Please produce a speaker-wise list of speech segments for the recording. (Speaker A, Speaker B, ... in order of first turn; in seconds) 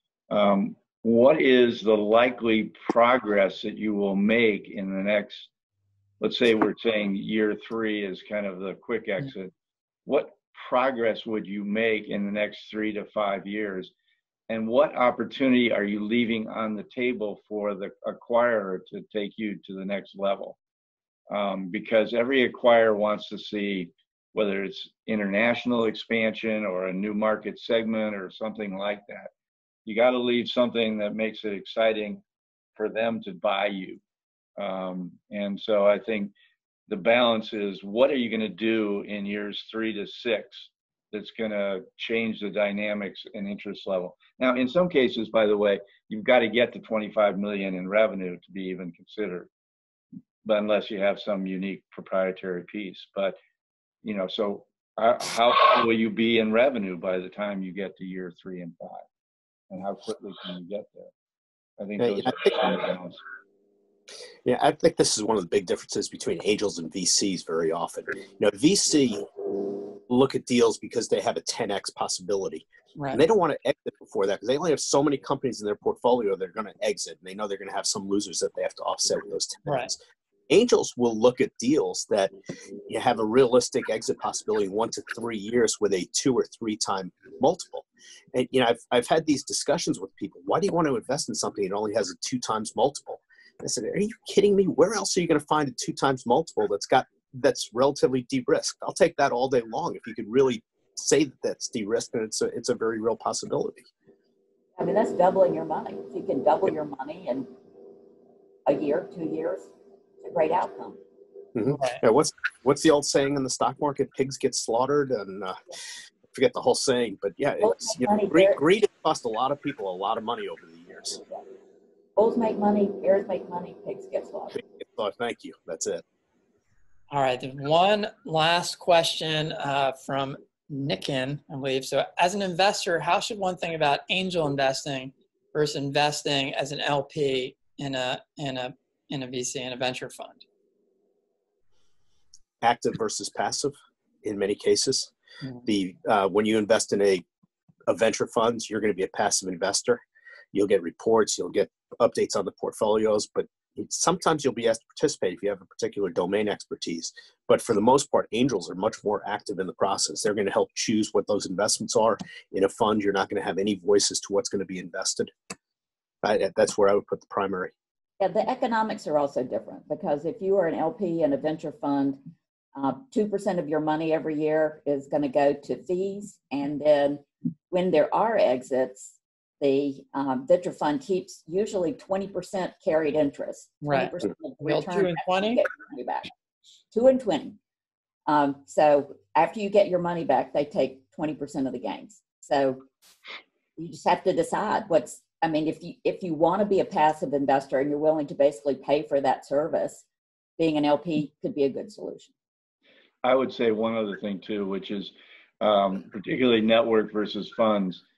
Speaker A: 0.3-5.5, 6.2-9.5, 10.1-13.9, 14.5-20.6, 21.3-29.3, 29.9-32.2, 32.8-34.0, 34.6-36.3, 36.9-49.5, 50.4-53.4, 54.0-59.0, 59.7-61.1, 61.8-63.2, 203.2-208.0
Speaker B: 62.0-62.5, 64.5-80.0, 80.5-82.3, 82.9-103.9, 111.5-115.6, 116.3-121.2, 124.6-126.0, 142.6-145.1, 145.7-147.2, 147.9-150.0, 150.5-165.3, 166.2-167.7
Speaker C: 73.0-73.2, 111.7-112.0, 127.1-140.4, 183.8-185.6
Speaker D: 104.8-107.5, 108.7-111.0, 117.6-118.6, 122.2-124.6, 168.2-172.2, 172.8-186.3, 186.9-187.6, 188.3-192.8, 193.8-200.1, 200.6-202.3